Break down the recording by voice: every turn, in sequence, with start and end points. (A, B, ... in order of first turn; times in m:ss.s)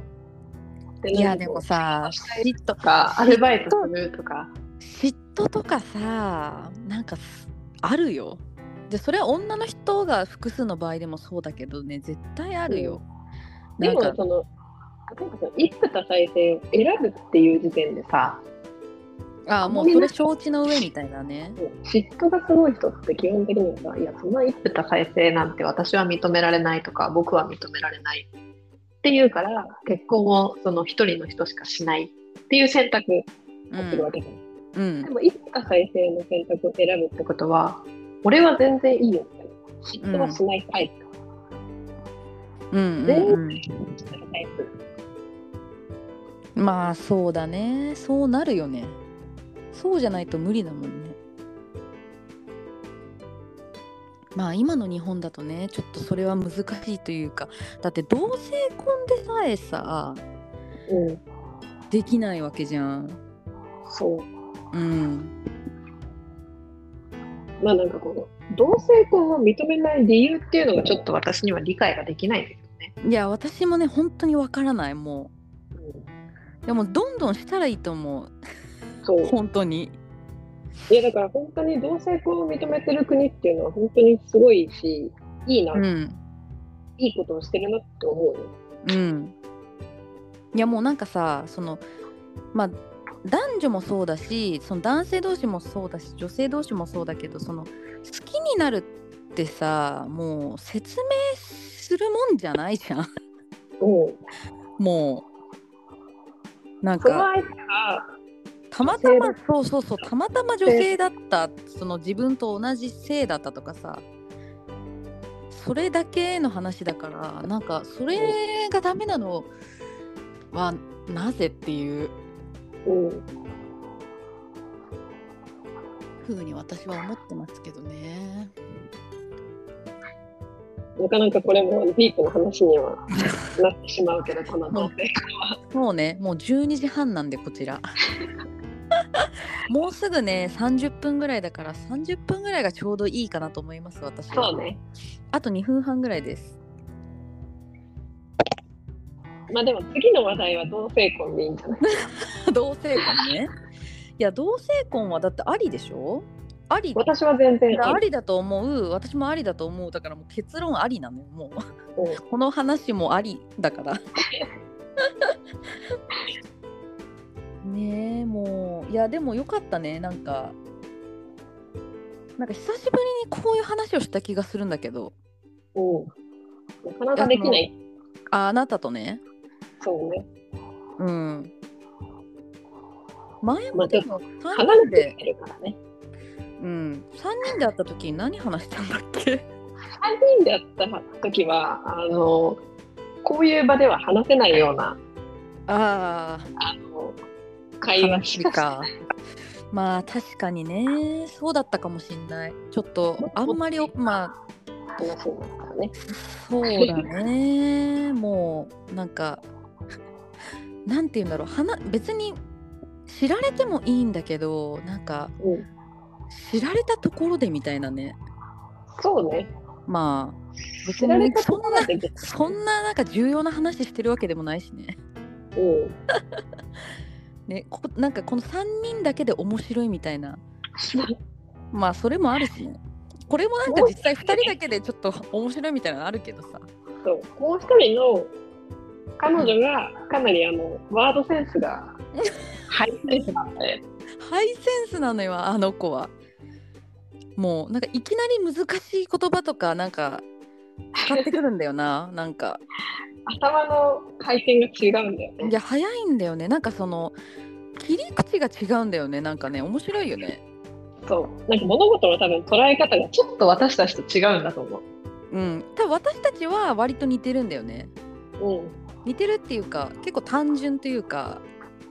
0:01.0-0:04.5 A
0:01.1-0:03.9 B
0:04.8-0:13.0 B
0:12.7-0:13.0 A
0:13.8-0:14.2 B
0:13.8-0:14.5 A
0:15.1-0:18.4 A
0:19.5-0:21.6 B
0:19.6-0:20.2 A
0:21.6-0:28.3 A
0:29.0-0:34.4 A
0:33.7-0:34.1 B
0:34.8-0:35.1 B
0:35.0-0:41.1 A
0:40.0-0:40.4 B
0:42.7-0:43.6 B
0:43.1-0:43.5 A
0:44.1-0:44.7 A
0:46.6-0:49.0 B
0:49.7-0:51.2 B
0:54.4-1:00.2 B
1:00.9-1:01.2 A
1:01.9-1:03.2 B
1:03.9-1:04.3 A
1:04.7-1:05.3 B
1:07.6-1:12.9 A
1:13.0-1:15.3 B
1:15.8-1:16.0 A
1:16.6-1:18.3 B
1:19.0-1:19.4 A
1:19.2-1:20.0 B
1:20.9-1:25.8 A
1:25.7-1:26.2 B
1:27.0-1:28.5 A
1:28.8-1:29.3 B
1:30.5-1:31.8 B
1:32.5-1:43.1 B
1:43.8-1:44.2 A
1:44.8-1:45.3 B
1:46.8-1:47.3 B
1:47.0-1:48.1 A
1:48.7-1:54.0 B
1:48.8-1:49.4 A
1:55.5-1:59.5 B
2:00.5-2:02.1 B
2:02.9-2:03.3 A
2:06.2-2:08.5 B
2:11.0-2:15.6 A
2:15.7-2:17.8 B
2:19.0-2:24.5 B
2:24.3-2:24.8 A
2:25.3-2:26.6 B
2:29.5-2:32.0 A
2:31.8-2:33.5 B
2:34.2-2:37.0 B
2:37.0-2:38.0 A
2:37.7-2:41.6 B
2:42.2-2:44.0 B
2:47.6-2:50.6 B
2:52.4-2:55.1 B
2:55.8-2:56.1 A
2:56.8-2:57.7 A
2:57.2-2:57.6 B
2:58.3-2:59.2 B
2:59.8-3:00.3 A
3:01.0-3:01.5 B
3:03.4-3:05.2 B
3:03.7-3:05.8 A
3:06.6-3:09.4 B
3:10.0-3:12.6 A
3:13.2-3:15.0 A
3:15.7-3:16.5 B
3:16.6-3:17.2 A
3:17.8-3:18.7 A
3:18.0-3:18.9 B
3:19.7-3:24.3 B
3:23.2-3:23.6 A
3:25.0-3:25.9 A
3:26.0-3:29.4 B
3:26.7-3:27.0 A
3:30.9-3:32.4 B
3:33.1-3:35.3 B
3:35.4-3:35.7 A
3:36.3-3:38.2 B
3:38.9-3:39.5 A
3:39.9-3:45.0 B
3:40.8-3:42.5 A
3:45.6-3:46.0 A
3:47.5-3:50.4 B
3:50.8-3:51.1 A
3:51.7-3:56.7 B
3:53.7-3:54.5 A
3:57.0-3:58.3 A
3:59.2-4:02.0 A
4:02.7-4:03.8 A
4:04.2-4:06.1 B
4:07.4-4:10.3 B
4:11.0-4:11.4 A
4:11.0-4:12.6 B
4:13.3-4:15.5 A
4:15.4-4:17.2 B
4:17.8-4:20.4 B
4:21.1-4:24.8 A
4:25.3-4:27.9 B
4:28.4-4:28.8 A
4:29.0-4:31.4 B